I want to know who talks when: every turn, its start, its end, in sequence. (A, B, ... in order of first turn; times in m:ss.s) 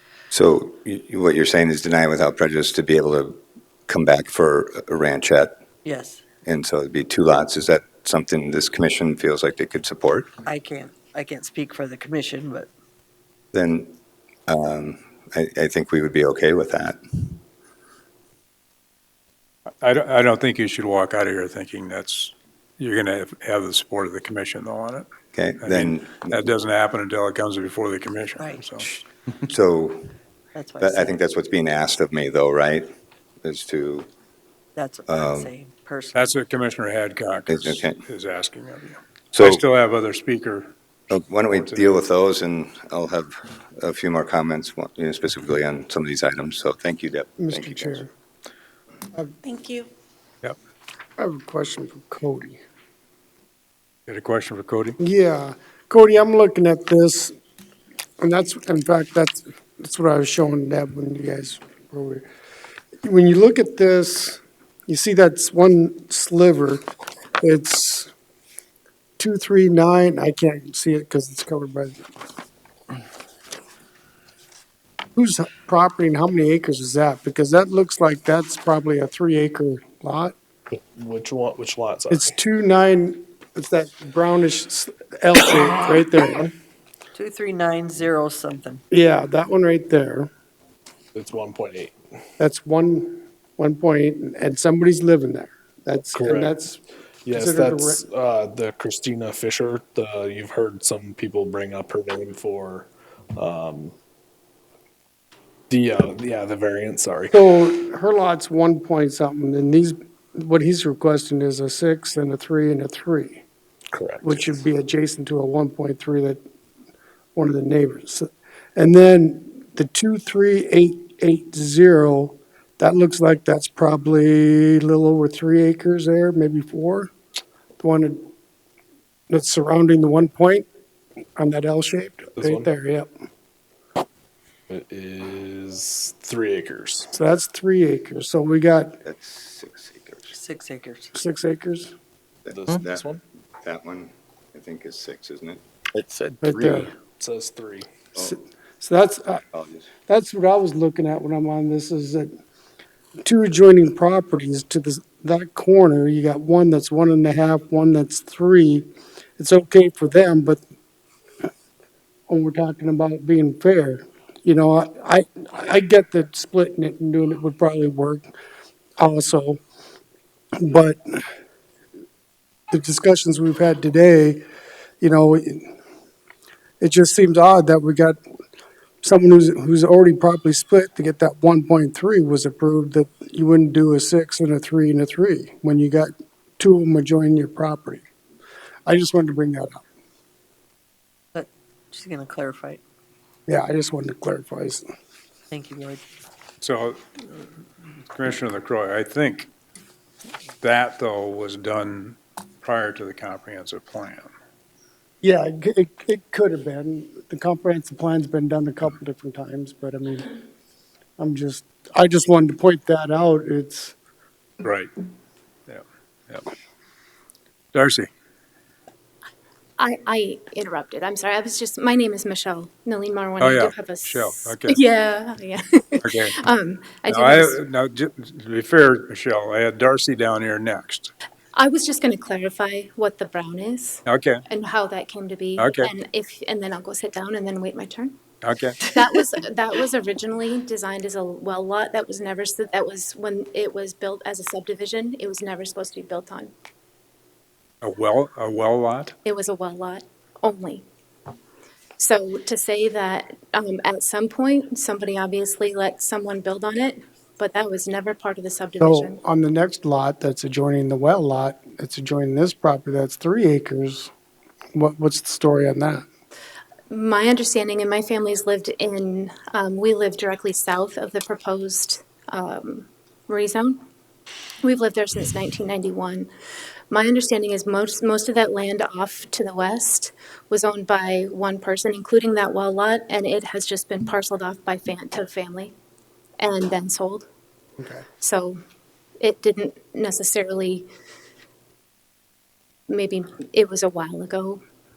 0:00.3-0:05.6 A
0:05.8-0:06.2 B
0:06.4-0:10.3 A
0:10.4-0:12.7 B
0:13.5-0:13.9 A
0:14.5-0:17.4 A
0:19.8-0:25.0 C
0:25.3-0:26.4 A
0:25.6-0:28.9 C
0:28.4-0:28.6 B
0:29.5-0:30.1 A
0:30.5-0:31.2 B
0:30.8-0:32.9 A
0:33.4-0:34.1 A
0:34.8-0:36.3 B
0:35.1-0:35.5 A
0:36.1-0:40.7 C
0:37.5-0:38.0 A
0:39.3-0:39.6 A
0:41.1-0:48.0 A
0:41.5-0:41.9 C
0:47.4-0:48.1 D
0:51.2-0:52.6 D
0:54.1-0:55.0 C
0:55.0-0:57.3 D
0:58.2-1:02.2 D
1:03.0-1:06.8 D
1:07.4-1:08.1 D
1:09.2-1:12.0 D
1:15.2-1:20.4 D
1:20.9-1:22.3 E
1:22.1-1:26.5 D
1:27.1-1:28.8 B
1:28.9-1:30.3 D
1:31.1-1:31.9 E
1:32.4-1:36.8 D
1:36.1-1:36.5 E
1:37.2-1:43.9 E
1:37.3-1:38.0 D
1:45.7-1:47.4 E
1:47.3-1:53.4 D
1:53.9-1:54.6 E
1:54.2-1:56.4 D
1:57.4-2:07.1 D
2:07.8-2:08.2 D
2:09.3-2:10.7 D
2:11.4-2:13.1 D
2:12.4-2:12.7 E
2:14.7-2:17.1 E
2:17.1-2:19.0 D
2:19.0-2:20.3 A
2:20.3-2:21.1 B
2:21.1-2:21.9 D
2:22.4-2:23.0 A
2:22.5-2:23.2 E
2:23.6-2:25.6 A
2:26.0-2:27.9 E
2:26.4-2:26.9 D
2:28.2-2:29.4 D
2:29.5-2:29.9 A
2:30.1-2:32.3 D
2:33.2-2:40.6 D
2:42.3-2:48.3 D
2:49.0-2:49.6 D
2:50.6-2:51.2 D
2:52.7-2:54.4 D
2:55.0-2:55.7 D
2:56.8-2:58.2 D
2:59.0-3:08.0 D
3:08.8-3:09.8 D
3:11.3-3:12.8 B
3:13.5-3:14.8 D
3:15.5-3:16.0 B
3:16.6-3:17.4 C
3:18.1-3:19.5 C
3:20.6-3:24.3 C
3:25.2-3:30.3 D
3:31.2-3:33.9 D
3:34.6-3:34.9 C
3:35.7-3:36.5 C
3:37.7-3:38.1 C
3:39.8-3:47.4 F
3:43.4-3:44.8 C
3:46.0-3:46.3 C
3:47.1-3:51.1 C
3:51.6-3:58.1 F
3:54.1-3:54.4 C
3:55.6-3:55.9 C
3:58.4-3:58.8 C
3:58.9-4:06.5 F
4:07.8-4:09.1 C
4:09.2-4:10.8 F
4:12.0-4:19.1 F
4:18.8-4:24.1 D
4:24.7-4:26.0 D
4:26.9-4:33.8 F
4:34.6-4:36.2 F
4:36.9-4:45.7 F
4:46.4-4:47.2 F
4:47.8-4:48.0 D
4:48.2-4:48.6 F
4:49.2-4:50.8 F
4:52.9-4:54.6 F